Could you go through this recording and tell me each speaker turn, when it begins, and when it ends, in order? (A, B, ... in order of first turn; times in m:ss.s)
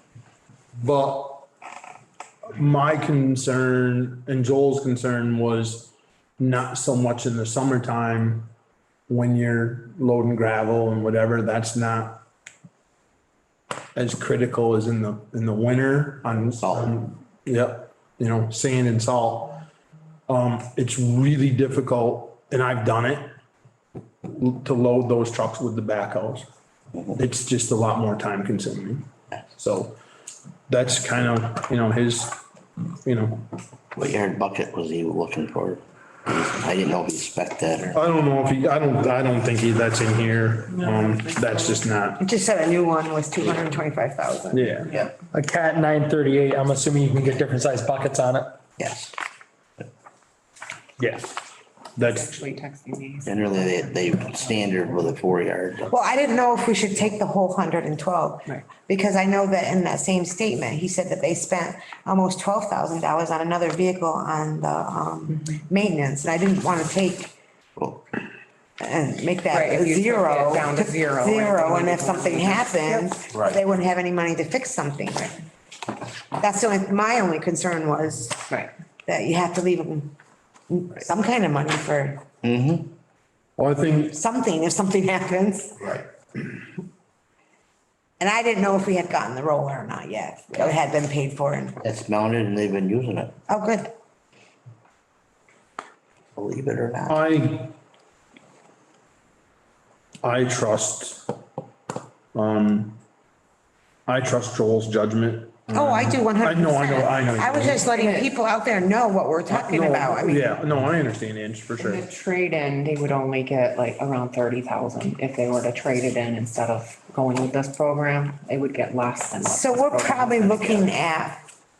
0:00.7-0:01.5 A
0:02.5-0:08.5 A
0:09.1-0:12.2 A
0:13.9-0:19.6 A
0:16.6-0:16.9 B
0:20.3-0:23.3 A
0:24.2-0:26.5 A
0:27.1-0:30.0 A
0:30.7-0:32.4 A
0:33.0-0:33.5 A
0:33.9-0:38.0 B
0:37.9-0:42.2 A
0:42.2-0:44.8 C
0:44.5-0:44.9 A
0:45.3-0:48.6 D
0:48.8-0:49.1 B
0:51.0-0:51.3 A
0:52.0-0:52.3 A
0:52.1-0:55.0 E
0:53.2-0:55.9 B
0:55.9-1:07.3 C
1:07.8-1:08.0 B
1:08.8-1:15.4 C
1:09.5-1:13.3 E
1:13.3-1:13.6 B
1:16.4-1:18.4 C
1:19.0-1:20.1 C
1:20.7-1:22.2 C
1:22.4-1:22.9 B
1:23.6-1:24.2 A
1:24.1-1:25.9 C
1:28.2-1:31.8 C
1:31.8-1:33.3 B
1:33.5-1:33.9 C
1:36.4-1:37.2 B
1:37.1-1:37.7 A
1:40.2-1:41.3 A
1:42.3-1:43.0 A
1:44.1-1:47.8 A
1:45.7-1:50.6 C
1:47.9-1:48.3 E
1:49.5-1:52.0 A
1:51.8-2:00.9 E
1:59.4-2:01.4 C